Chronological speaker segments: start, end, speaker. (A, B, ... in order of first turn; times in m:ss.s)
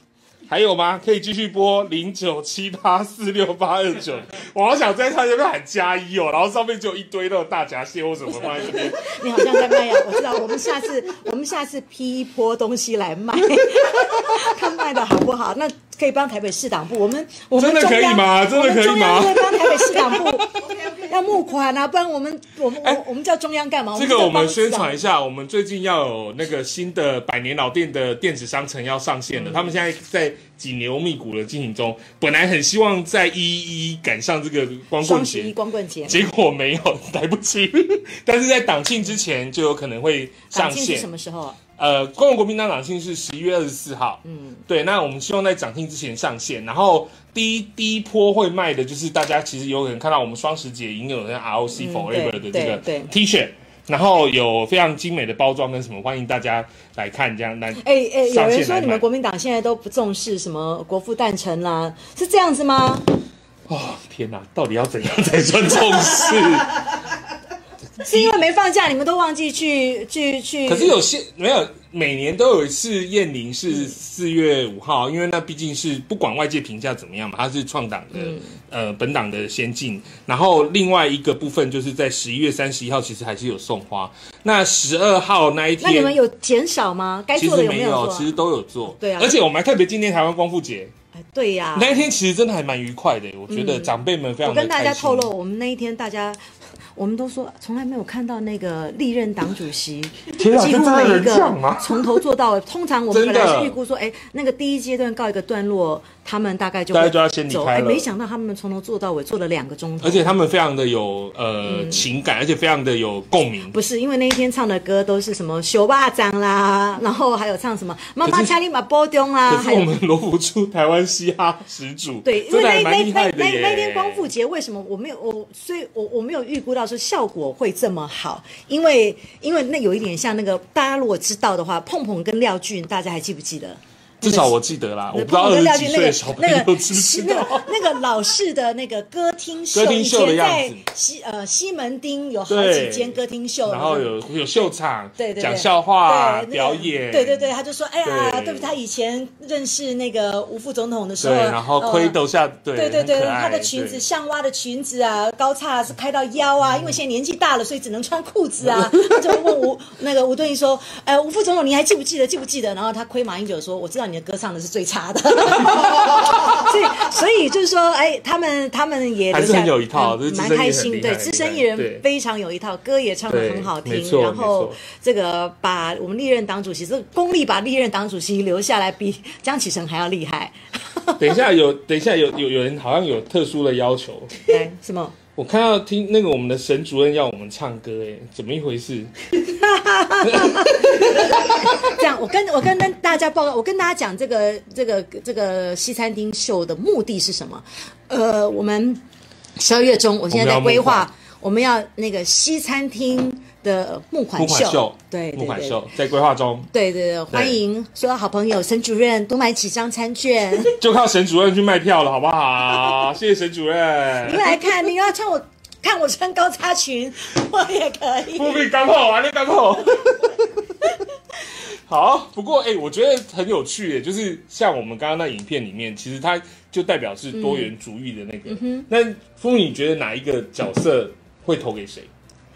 0:00.5-0:09.1 A
0:08.6-0:25.0 B
0:17.6-0:20.5 A
0:23.9-0:41.1 A
0:29.3-0:29.7 B
0:35.0-0:36.2 B
0:40.5-0:41.6 B
0:41.8-0:59.0 A
0:44.2-0:44.6 B
0:51.8-0:53.1 B
0:57.8-1:03.1 B
1:03.7-1:06.9 A
1:08.0-1:08.4 A
1:08.0-1:11.0 B
1:10.6-1:26.2 A
1:18.1-1:18.5 B
1:25.8-1:28.4 B
1:27.3-1:30.9 A
1:29.0-1:29.4 B
1:31.2-1:32.1 B
1:31.7-1:35.3 A
1:33.5-1:36.4 B
1:37.0-1:50.3 B
1:40.3-1:42.2 A
1:43.1-1:43.8 A
1:46.9-1:48.1 A
1:50.0-1:53.8 A
1:51.6-1:52.0 B
1:53.7-1:59.9 B
1:58.2-1:58.5 A
1:59.4-2:04.3 A
2:02.2-2:14.6 B
2:14.2-2:17.8 A
2:15.1-2:24.1 B
2:19.7-2:20.8 A
2:22.5-2:27.5 A
2:25.2-2:32.2 B
2:28.0-2:28.8 A
2:31.2-2:34.0 A
2:32.7-3:01.4 B
2:49.3-2:52.0 A
2:53.3-2:54.8 A
3:01.2-3:04.4 A
3:04.5-3:05.1 B
3:05.4-3:09.1 A
3:09.5-3:19.0 B
3:10.2-3:11.2 A
3:19.6-3:25.9 B
3:20.3-3:21.1 A
3:24.3-3:26.7 A
3:26.7-3:30.8 B
3:27.3-3:27.6 A
3:30.8-3:34.6 A
3:34.2-3:38.7 B
3:38.3-3:40.4 A
3:41.6-3:52.1 A
3:47.3-3:47.7 B
3:48.5-3:48.9 B